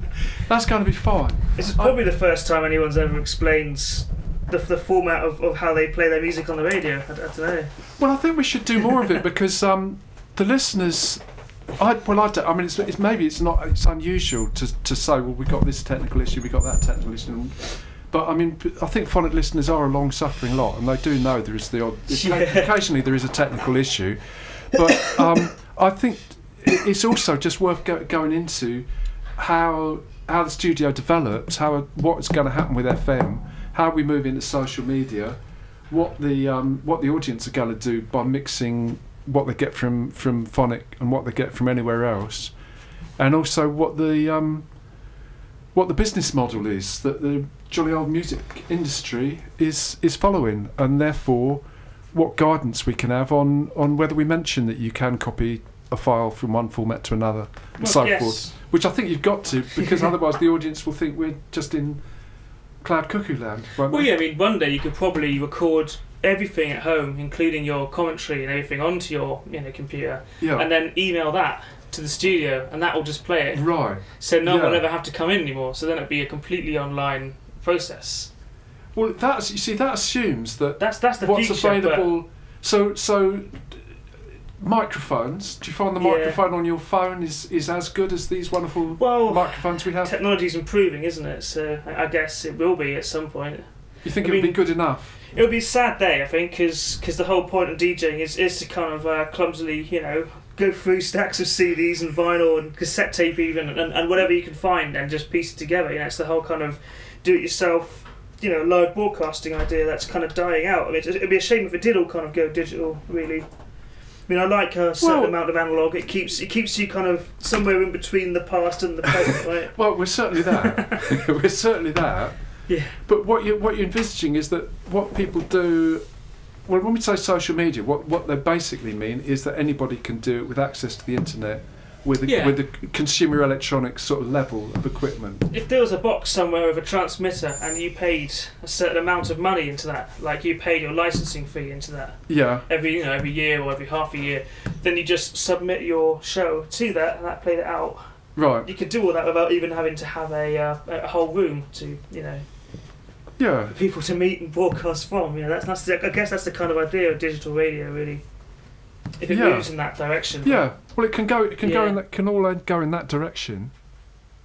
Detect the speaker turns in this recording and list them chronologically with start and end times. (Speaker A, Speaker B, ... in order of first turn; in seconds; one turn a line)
Speaker A: 0.4-2.0
Speaker B: 1.6-7.7
Speaker A: 8.0-11.2
Speaker A: 11.7-28.9
Speaker B: 22.1-22.7
Speaker A: 29.4-42.5
Speaker A: 43.2-44.7
Speaker A: 45.7-62.0
Speaker B: 57.8-58.5
Speaker A: 62.8-64.1
Speaker B: 63.9-78.3
Speaker A: 70.4-70.7
Speaker A: 73.5-74.9
Speaker A: 78.9-83.8
Speaker B: 80.8-82.1
Speaker A: 84.6-90.1
Speaker B: 86.0-86.4
Speaker B: 89.0-113.5
Speaker A: 94.0-95.2
Speaker B: 114.3-119.9
Speaker A: 115.0-115.3
Speaker A: 119.7-126.0
Speaker B: 120.5-121.0
Speaker B: 122.7-123.0
Speaker A: 126.7-135.5
Speaker B: 132.2-132.6
Speaker B: 135.5-148.0
Speaker A: 142.3-142.6
Speaker A: 148.4-148.7
Speaker B: 148.6-152.4
Speaker A: 153.4-153.7
Speaker B: 153.7-158.2
Speaker B: 159.2-160.7
Speaker A: 159.3-159.7
Speaker A: 160.4-163.7
Speaker B: 161.6-162.0